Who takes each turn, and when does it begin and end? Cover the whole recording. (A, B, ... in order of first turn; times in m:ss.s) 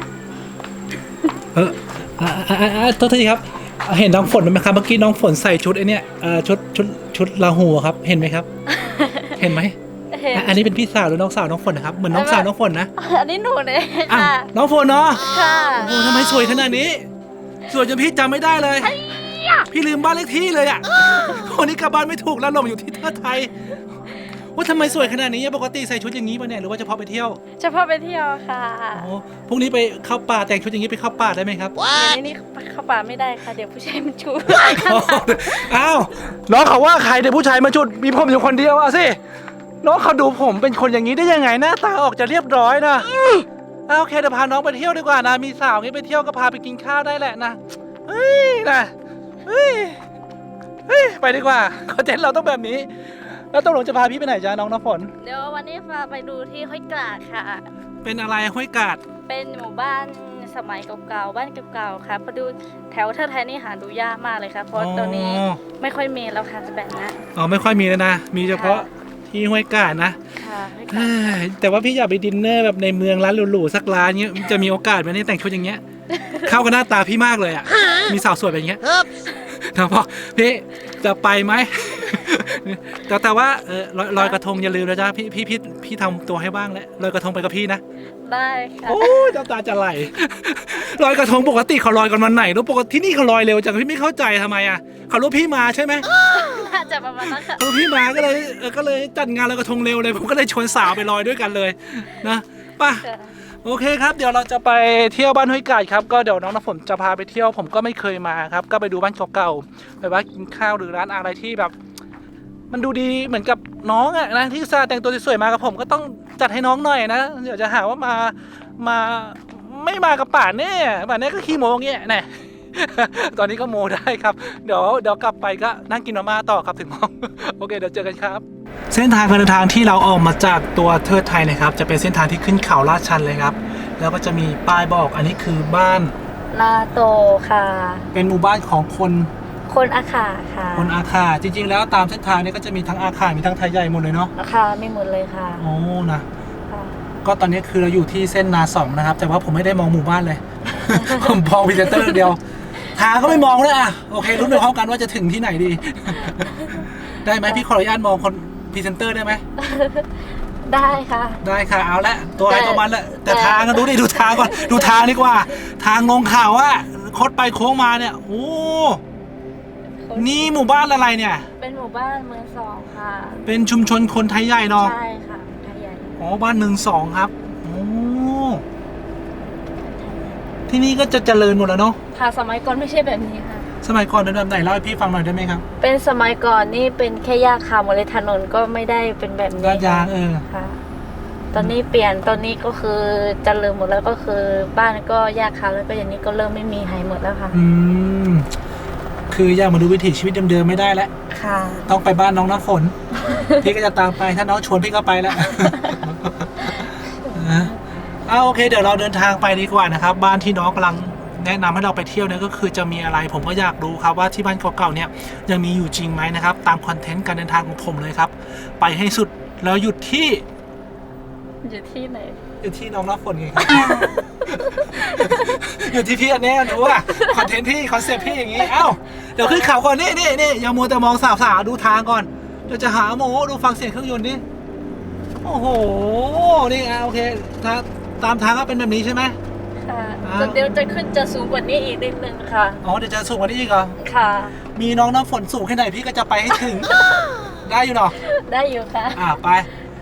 0:01.5-0:08.5 A
0:08.7-0:09.5 B
0:09.4-0:09.8 A
0:10.1-0:10.6 B
0:10.3-0:12.9 A
0:12.1-0:14.5 B
0:14.1-0:17.1 A
0:15.3-0:16.0 B
0:17.7-0:18.9 A
0:18.8-0:19.7 B
0:19.7-0:23.5 A
0:24.6-0:27.4 A
0:24.9-0:25.1 B
0:27.6-0:29.1 B
0:29.0-0:31.8 A
0:31.9-0:35.7 B
0:34.5-0:39.2 A
0:39.8-0:48.9 A
0:49.4-0:50.0 A
0:50.9-0:55.1 A
0:55.2-0:57.7 B
0:58.0-0:59.0 A
0:59.3-1:07.2 B
1:04.8-1:05.6 A
1:07.4-1:10.2 A
1:08.5-1:08.8 B
1:10.4-1:11.4 B
1:10.9-1:15.8 A
1:16.4-1:18.9 A
1:19.6-1:27.8 A
1:28.2-1:29.3 B
1:28.9-1:36.1 A
1:36.3-1:37.7 B
1:37.4-1:43.0 A
1:43.0-1:43.4 B
1:43.6-1:51.7 A
1:52.7-2:16.2 A
2:16.5-2:18.1 B
2:18.1-2:19.3 A
2:19.7-2:20.9 B
2:20.8-2:24.3 A
2:24.4-2:25.6 B
2:25.6-2:26.2 A
2:26.7-2:27.0 B
2:27.2-2:32.4 A
2:30.9-2:32.2 B
2:32.8-2:33.5 B
2:32.9-2:39.4 A
2:36.3-2:36.9 B
2:39.6-2:40.1 B
2:40.6-2:41.4 B
2:41.4-2:49.0 A
2:42.5-2:45.3 B
2:50.0-2:50.6 B
2:50.2-2:51.5 A
2:51.6-2:53.4 B
2:53.5-2:54.9 A
2:54.8-2:56.2 B
2:56.2-2:58.6 A
2:59.8-3:00.4 B
3:00.7-3:02.0 A
3:02.1-3:03.7 B
3:03.8-3:05.6 A
3:05.8-3:10.8 B
3:09.6-3:10.4 A
3:11.5-3:17.6 B
3:17.5-3:18.5 A
3:19.3-3:21.1 A
3:21.3-3:21.9 B
3:21.9-3:23.0 A
3:23.2-3:23.6 B
3:23.6-3:27.7 A
3:25.5-3:26.0 B
3:27.2-3:27.7 B
3:28.3-3:40.4 A
3:41.6-3:42.4 B
3:42.6-3:54.4 A
3:43.7-3:45.6 B
3:46.7-3:49.8 B
3:55.4-3:59.4 A
3:59.9-4:02.8 B
4:00.2-4:00.7 A
4:02.8-4:04.0 A
4:04.0-4:04.6 B
4:04.8-4:07.0 A
4:06.8-4:07.5 B
4:07.6-4:08.2 A
4:08.2-4:09.4 B
4:09.2-4:09.7 A